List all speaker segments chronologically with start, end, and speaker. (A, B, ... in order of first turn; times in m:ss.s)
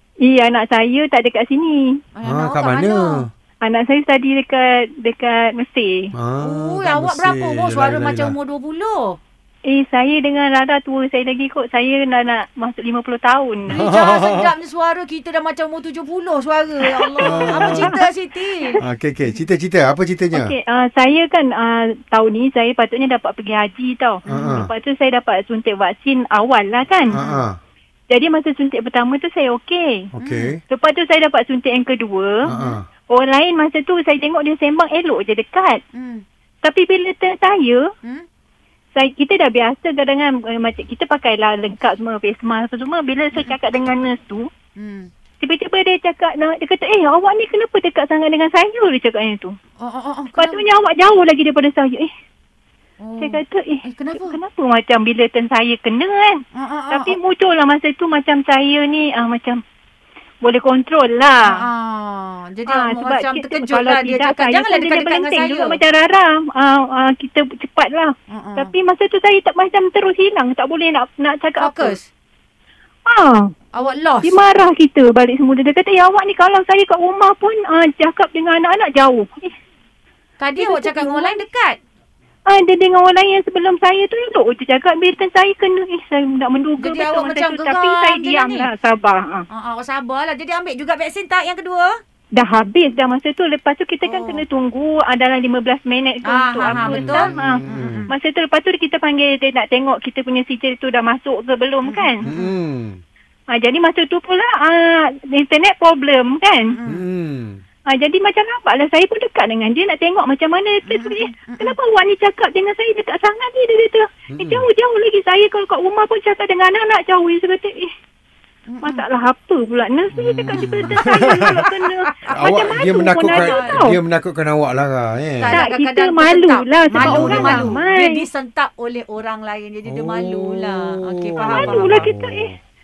0:00.2-0:02.0 A
0:02.2-0:03.2 B
0:02.2-0:03.3 C
0:03.6-0:06.1 A
0:06.1-0:08.4 C
0:06.4-0:09.2 B
0:09.6-0:13.8 A
0:13.7-0:14.5 C
0:13.7-0:18.8 B
0:16.9-0:18.0 A
0:17.2-0:18.0 C
0:18.8-0:20.5 C
0:20.3-0:27.2 A
0:24.3-0:24.7 C
0:24.3-0:24.5 B
0:27.1-0:27.4 B
0:27.1-0:27.6 C
0:28.1-0:30.1 A
0:30.2-0:30.6 C
0:30.2-0:30.5 B
0:30.7-0:32.5 A
0:32.4-0:32.8 C
0:32.5-0:32.8 B
0:33.1-0:35.8 A
0:35.9-0:36.2 B
0:36.6-0:37.9 A
0:39.0-0:44.5 A
0:44.8-0:45.1 B
0:45.4-0:49.6 A
0:49.8-0:50.6 B
0:50.4-0:52.1 A
0:53.0-0:54.4 B
0:53.2-0:59.6 A
0:56.6-0:57.2 B
1:00.4-1:01.7 A
1:01.4-1:05.8 B
1:02.7-1:12.0 A
1:08.3-1:08.7 B
1:11.6-1:12.1 B
1:13.1-1:13.6 A
1:13.7-1:14.4 B
1:14.2-1:19.5 A
1:20.4-1:21.8 B
1:20.6-1:21.4 A
1:22.5-1:29.5 A
1:26.8-1:28.7 B
1:29.5-1:32.0 B
1:32.4-1:42.2 A
1:34.0-1:34.4 B
1:36.3-1:38.1 B
1:36.7-1:38.1 C
1:41.9-1:42.6 B
1:42.2-1:43.0 C
1:43.5-1:46.8 A
1:46.7-1:47.0 B
1:46.8-1:47.6 C
1:47.9-1:57.9 A
1:50.9-1:51.8 B
1:54.3-1:54.7 C
1:58.7-1:59.0 B
1:58.8-2:04.0 A
2:00.1-2:01.6 C
2:00.6-2:03.8 B
2:02.3-2:05.6 C
2:05.4-2:12.1 B
2:05.5-2:08.2 A
2:07.0-2:07.8 C
2:09.8-2:12.6 C
2:11.4-2:12.5 A